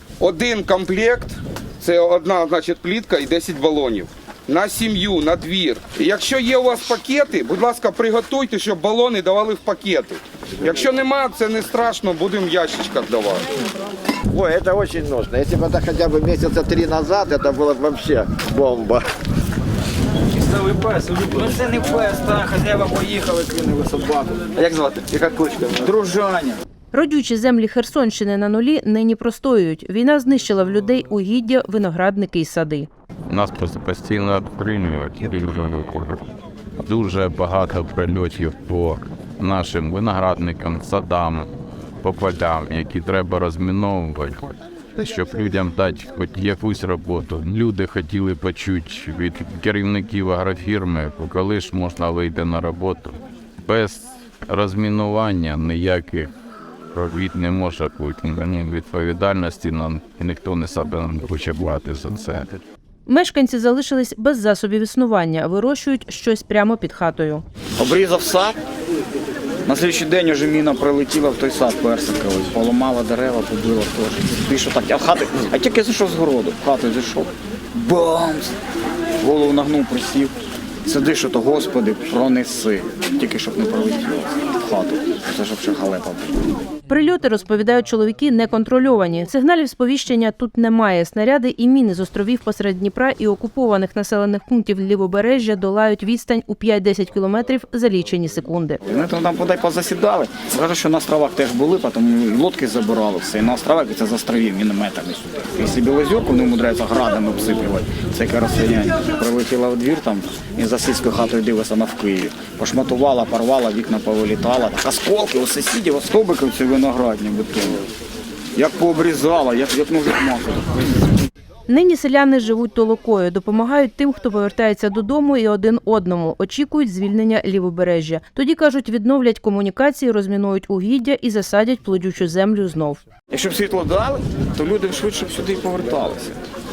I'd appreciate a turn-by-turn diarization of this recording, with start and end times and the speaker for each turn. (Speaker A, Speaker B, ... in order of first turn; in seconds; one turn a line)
Speaker A: 0.2-13.4
Speaker B: 14.3-19.0
Speaker C: 21.4-24.2
Speaker C: 25.7-26.6
Speaker D: 26.9-32.9
Speaker E: 33.3-36.2
Speaker E: 36.8-41.5
Speaker E: 42.0-56.3
Speaker E: 56.9-62.6
Speaker D: 63.0-67.4
Speaker C: 67.8-68.6
Speaker C: 69.7-78.5
Speaker C: 79.2-80.3
Speaker C: 80.8-86.3
Speaker D: 86.9-98.8
Speaker C: 98.8-117.8
Speaker C: 118.5-121.0
Speaker D: 121.7-133.0
Speaker C: 133.3-136.4